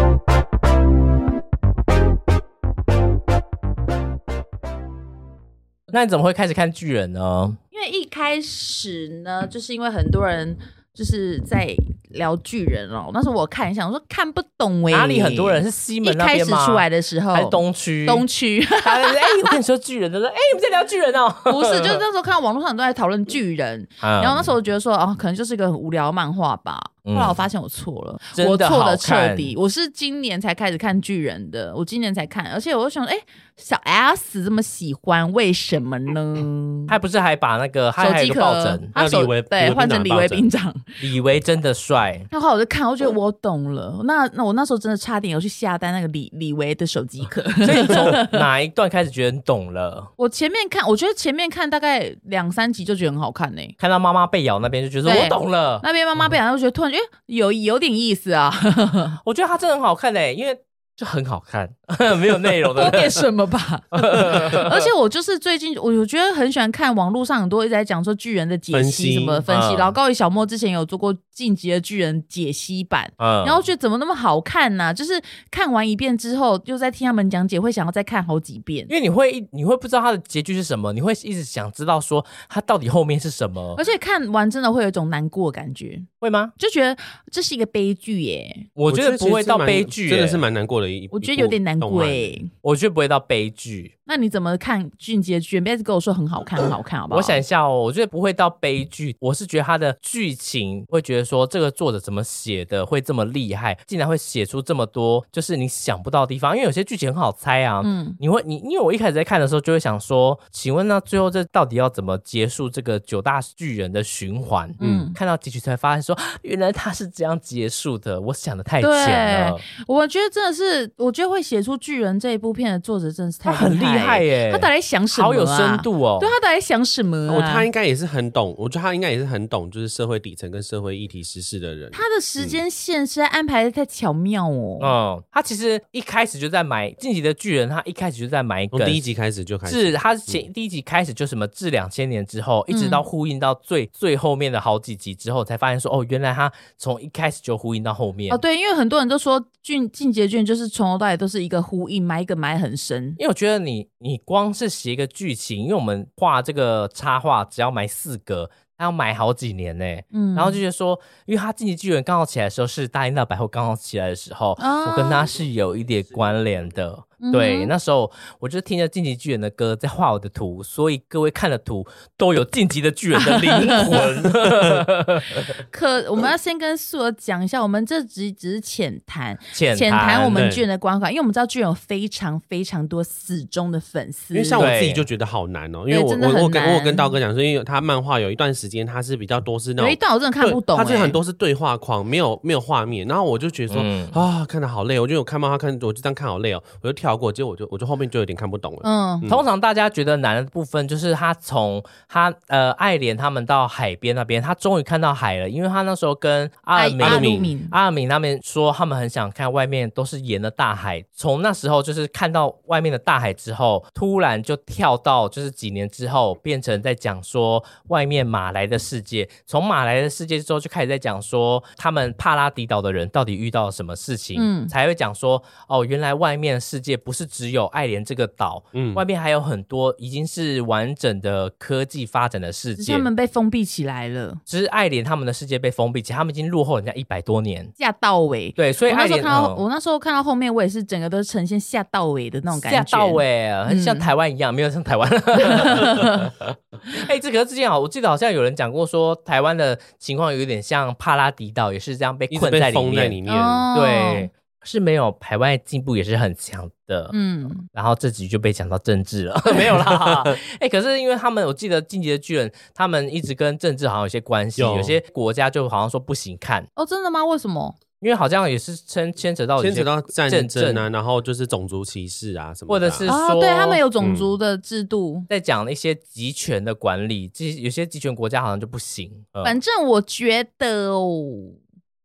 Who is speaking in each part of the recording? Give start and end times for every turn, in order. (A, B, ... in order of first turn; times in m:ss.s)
0:05.9-0:07.6 A
0:07.7-0:19.6 B
0:14.9-0:22.0 A
0:21.5-0:36.9 B
0:24.0-0:24.5 A
0:27.1-0:27.4 A
0:28.4-0:29.6 A
0:36.9-0:38.9 A
0:38.0-0:40.9 B
0:39.0-0:40.5 C
0:41.0-0:42.3 A
0:42.3-0:48.4 B
0:47.6-0:50.1 A
0:50.2-0:53.8 B
0:53.8-0:55.8 A
0:55.0-0:59.2 B
0:59.2-1:03.2 A
1:02.7-1:18.9 B
1:03.9-1:04.9 A
1:08.7-1:09.5 C
1:09.5-1:10.0 A
1:13.2-1:13.7 A
1:18.9-1:23.8 A
1:23.8-1:28.7 B
1:26.2-1:26.5 A
1:28.8-1:30.4 A
1:28.9-1:32.4 C
1:31.1-1:32.5 B
1:32.6-1:33.9 A
1:34.1-1:37.4 B
1:37.1-1:59.6 A
1:47.8-1:48.2 B
1:54.8-1:55.2 B
1:54.8-1:55.1 C
1:58.8-2:07.7 B
2:03.4-2:06.3 A
2:07.3-2:12.6 C
2:11.9-2:14.9 B
2:14.8-2:19.1 A
2:18.7-2:20.4 C
2:19.6-2:28.4 A
2:22.7-2:23.0 B
2:28.3-2:33.2 B
2:33.2-2:55.4 A
2:40.1-2:40.6 B
2:44.6-2:45.3 B
2:45.3-2:46.7 C
2:47.2-2:47.7 B
2:53.1-2:54.1 B
2:54.0-2:54.4 C
2:55.7-3:04.7 B
2:59.5-3:00.5 A
3:00.3-3:00.6 C
3:04.3-3:19.4 C
3:04.6-3:05.1 A
3:05.9-3:07.2 B
3:09.8-3:11.2 B
3:13.7-3:14.2 A
3:18.8-3:19.3 B
3:19.3-3:53.1 A
3:26.7-3:27.7 B
3:27.0-3:27.5 C
3:44.4-3:44.7 B
3:48.7-3:49.0 C
3:52.8-3:54.4 B
3:54.5-3:57.7 A
3:57.8-4:04.1 B
3:58.6-3:59.6 A
4:02.5-4:13.2 A
4:05.5-4:06.1 B
4:12.3-4:13.7 C
4:13.3-4:14.3 B
4:13.7-4:26.7 A
4:17.1-4:17.6 B
4:19.6-4:20.1 C
4:24.6-4:25.0 C
4:26.8-4:27.8 B
4:28.0-4:30.9 A
4:29.6-4:33.1 C
4:32.7-4:33.8 A
4:33.0-4:35.3 B
4:34.0-4:34.3 C
4:35.3-4:39.6 A
4:39.4-4:41.6 B